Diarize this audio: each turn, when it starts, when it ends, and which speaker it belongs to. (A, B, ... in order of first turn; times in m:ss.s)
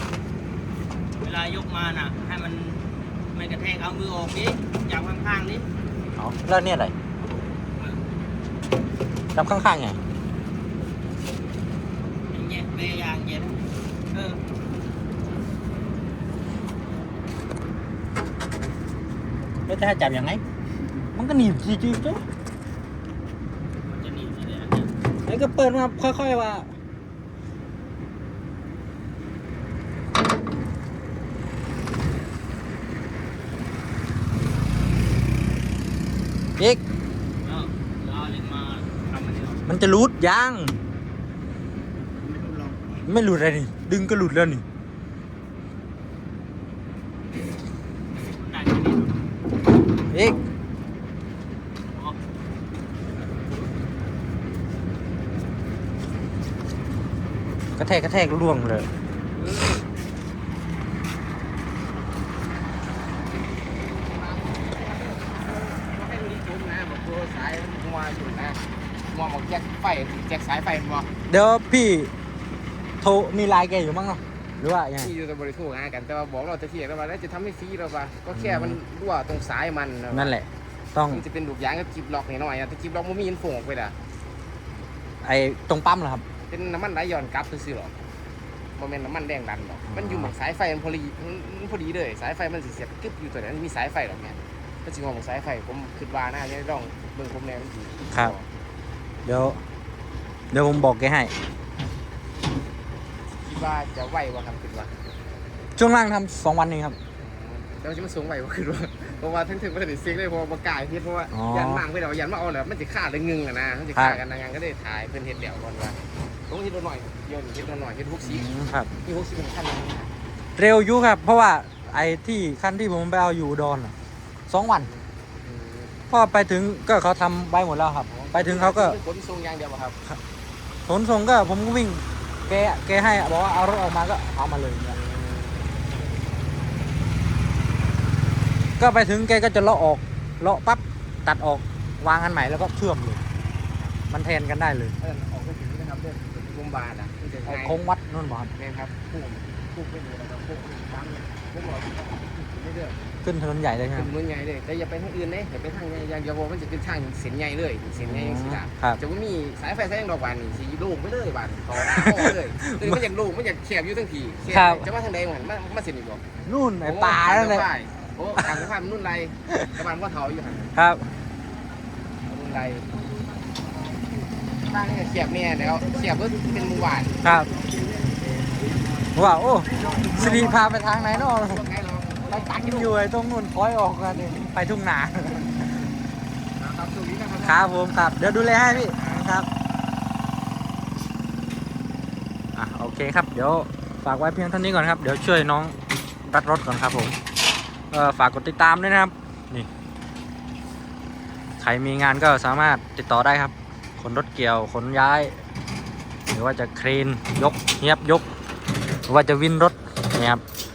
0:01.2-0:05.7 A
0:06.2-0:06.9 B
0:09.3-0:10.0 B
0:12.3-0:14.4 A
0:19.7-0:20.4 B
0:21.1-0:22.2 B
0:23.8-0:24.9 A
0:25.2-0:26.7 B
0:37.4-0:39.6 A
0:39.6-0:40.8 B
0:42.2-0:43.0 A
0:43.0-0:44.6 B
0:48.2-0:49.2 A
0:50.1-0:50.4 B
0:51.9-0:52.2 A
0:57.8-0:58.9 B
0:59.4-0:59.8 C
1:03.8-1:08.6 C
1:09.1-1:11.1 C
1:11.3-1:12.1 B
1:13.0-1:15.1 B
1:15.0-1:20.3 C
1:18.3-1:18.8 B
1:20.1-1:21.2 B
1:21.1-1:24.0 C
1:25.2-1:26.2 B
1:26.5-1:27.9 C
1:28.8-1:38.4 C
1:29.9-1:30.3 B
1:39.2-1:39.6 B
1:40.5-1:41.3 B
1:43.4-1:44.9 C
1:45.8-1:47.0 B
1:47.2-1:58.5 C
1:51.3-1:51.8 B
1:58.2-1:58.9 B
1:59.0-2:00.1 C
2:00.6-2:03.9 B
2:04.5-2:04.9 B
2:04.9-2:05.9 C
2:06.1-2:09.0 B
2:08.1-2:10.0 C
2:10.9-2:15.0 B
2:14.9-2:15.8 C
2:18.8-2:23.2 B
2:24.1-2:24.9 B
2:25.0-2:27.8 C
2:27.5-2:28.5 B
2:28.6-2:33.0 C
2:33.2-2:34.1 B
2:33.9-2:46.2 C
2:38.0-2:39.0 B
2:41.9-2:42.9 B
2:44.5-2:44.8 B
2:46.4-2:47.6 B
2:46.8-2:50.7 C
2:50.7-2:51.0 B
2:52.2-2:52.9 C
2:54.6-2:58.5 C
2:57.2-2:57.5 B
2:59.2-3:01.6 B
2:59.8-3:02.9 C
3:02.3-3:05.7 B
3:06.6-3:07.7 C
3:07.4-3:09.5 B
3:08.6-3:09.3 C
3:12.6-3:17.2 B
3:17.9-3:19.7 B
3:21.6-3:25.3 B
3:26.3-3:28.3 B
3:29.1-3:30.4 B